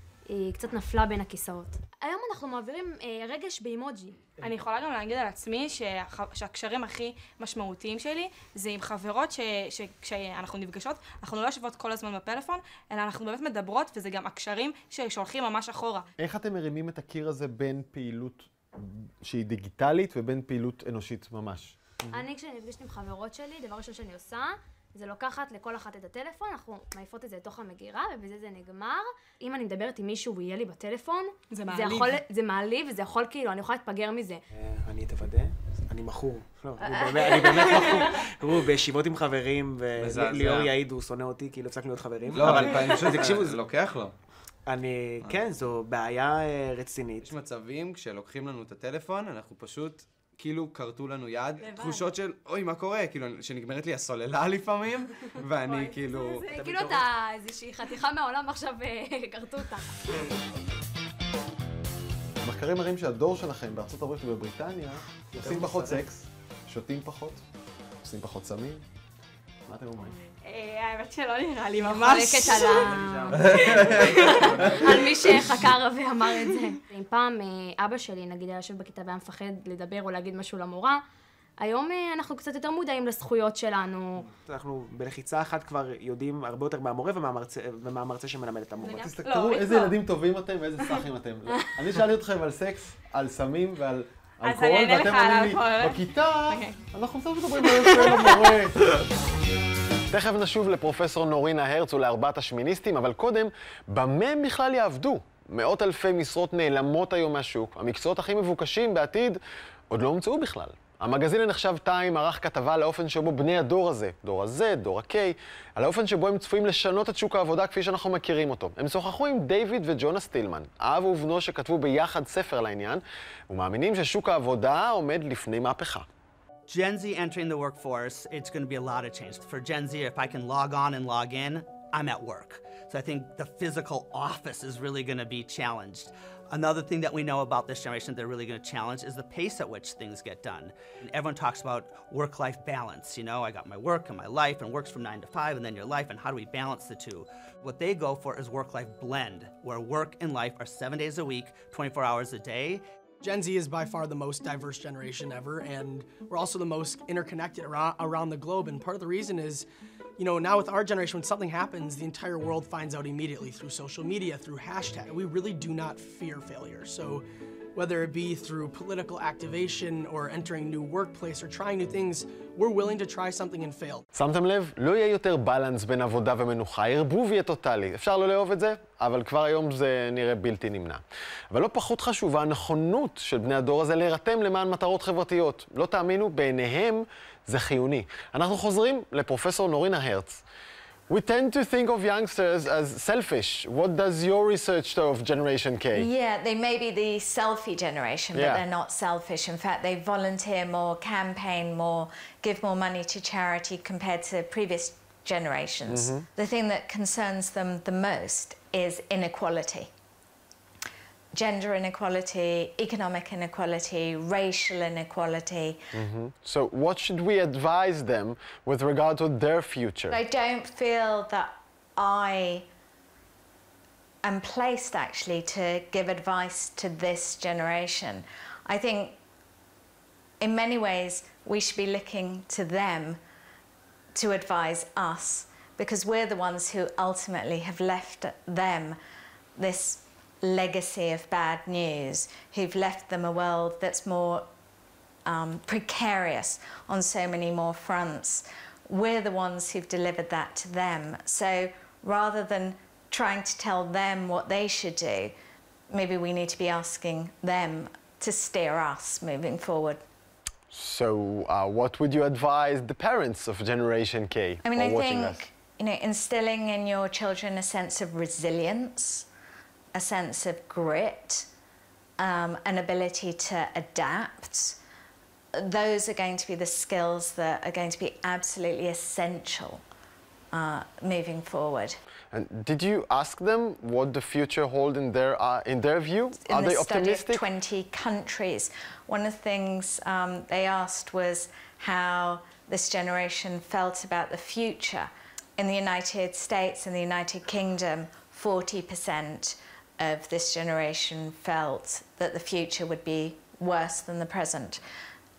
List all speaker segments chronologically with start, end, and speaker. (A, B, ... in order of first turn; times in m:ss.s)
0:00.3-0:04.2 A
0:04.4-0:16.1 B
0:16.2-0:22.2 C
0:22.1-0:34.4 A
0:31.5-0:32.2 B
0:34.5-0:43.6 D
0:40.0-0:40.7 E
0:42.3-0:44.1 E
0:44.7-0:47.3 D
0:47.2-0:56.5 E
0:51.6-0:52.1 A
0:55.6-1:00.0 A
0:56.5-0:57.1 D
1:02.4-1:07.4 C
1:05.4-1:06.0 D
1:08.0-1:08.8 C
1:09.7-1:10.2 C
1:10.4-1:12.9 B
1:11.9-1:21.0 A
1:12.6-1:15.3 D
1:13.6-1:14.0 E
1:13.6-1:14.5 B
1:21.6-1:24.3 A
1:24.3-1:29.1 D
1:28.9-1:30.0 B
1:28.9-1:38.9 C
1:34.4-1:36.8 B
1:37.6-1:38.6 B
1:40.1-1:49.4 C
1:49.9-2:06.1 C
2:06.7-2:32.8 F
2:33.2-2:39.7 G
2:40.2-2:47.2 G
2:47.8-2:54.0 G
2:54.1-3:10.4 C
3:11.1-3:16.1 C
3:15.9-3:29.9 H
3:18.3-3:18.6 C
3:25.9-3:26.3 C
3:31.3-3:35.8 H
3:35.9-3:40.2 C
3:40.1-3:42.7 H
3:44.2-3:49.2 H
3:50.4-3:53.2 H
3:54.2-3:59.0 H
3:59.6-4:04.5 H
4:05.3-4:15.4 H
4:15.9-4:20.0 H
4:20.7-4:25.4 C
4:24.6-4:29.3 H
4:30.0-4:31.5 H
4:32.2-4:34.8 H
4:35.6-4:39.8 H
4:40.5-4:42.0 H
4:42.3-4:47.4 C
4:46.4-5:04.8 H